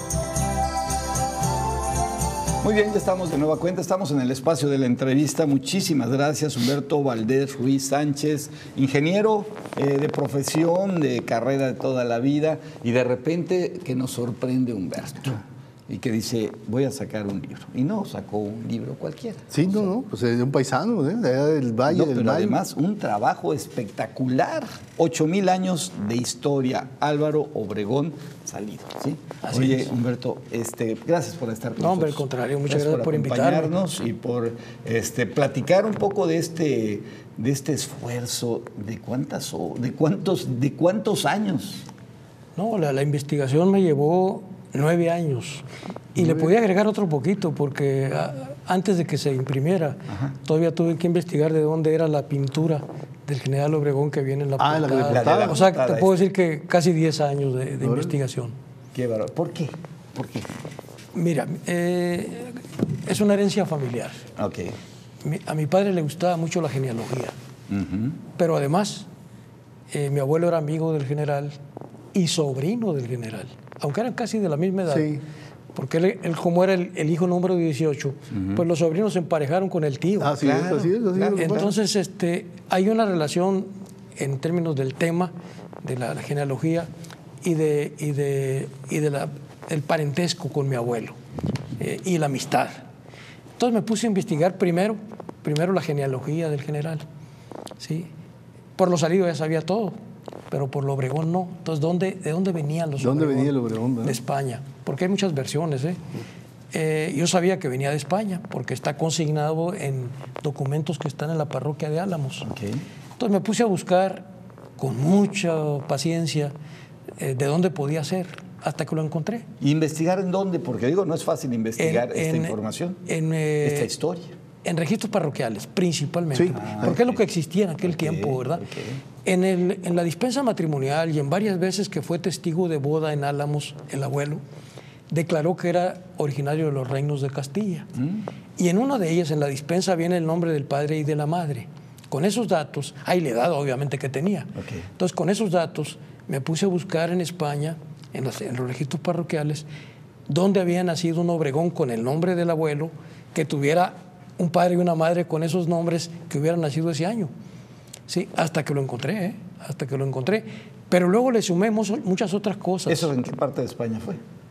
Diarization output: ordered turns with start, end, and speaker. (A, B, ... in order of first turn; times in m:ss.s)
0:02.6-0:19.7 A
0:19.5-0:22.6 B
0:21.9-0:41.9 A
0:29.4-0:29.9 C
0:31.8-0:33.8 C
0:42.6-0:58.5 C
0:46.2-0:46.5 B
0:50.1-0:50.3 A
0:54.6-0:55.6 B
0:55.1-0:56.2 A
0:57.8-0:58.1 B
0:58.9-1:00.5 A
1:01.1-1:04.2 C
1:04.4-1:04.7 A
1:05.2-1:07.3 C
1:07.7-1:08.2 A
1:08.3-1:09.1 C
1:09.9-1:11.5 C
1:12.1-1:15.1 C
1:14.9-1:15.2 B
1:15.7-1:20.4 C
1:18.3-1:18.6 A
1:20.2-1:21.7 B
1:20.4-1:21.7 A
1:21.3-1:26.9 C
1:27.4-1:31.2 C
1:31.8-1:32.8 C
1:33.6-1:37.0 C
1:37.8-1:38.1 C
1:38.8-1:40.0 C
1:40.5-1:46.0 C
1:43.0-1:44.2 B
1:46.7-1:52.5 C
1:52.4-1:52.8 A
1:53.2-1:54.2 C
1:54.8-1:56.5 C
1:57.2-1:59.4 C
1:59.6-2:03.0 A
2:01.8-2:03.9 C
2:03.6-2:04.3 A
2:04.6-2:08.6 C
2:06.3-2:07.0 B
2:06.5-2:07.2 A
2:07.8-2:09.0 A
2:09.2-2:14.4 C
2:15.1-2:17.9 C
2:18.0-2:18.2 A
2:18.6-2:29.6 C
2:24.6-2:24.8 A
2:30.3-2:37.3 C
2:38.1-2:43.1 C
2:42.9-2:44.2 A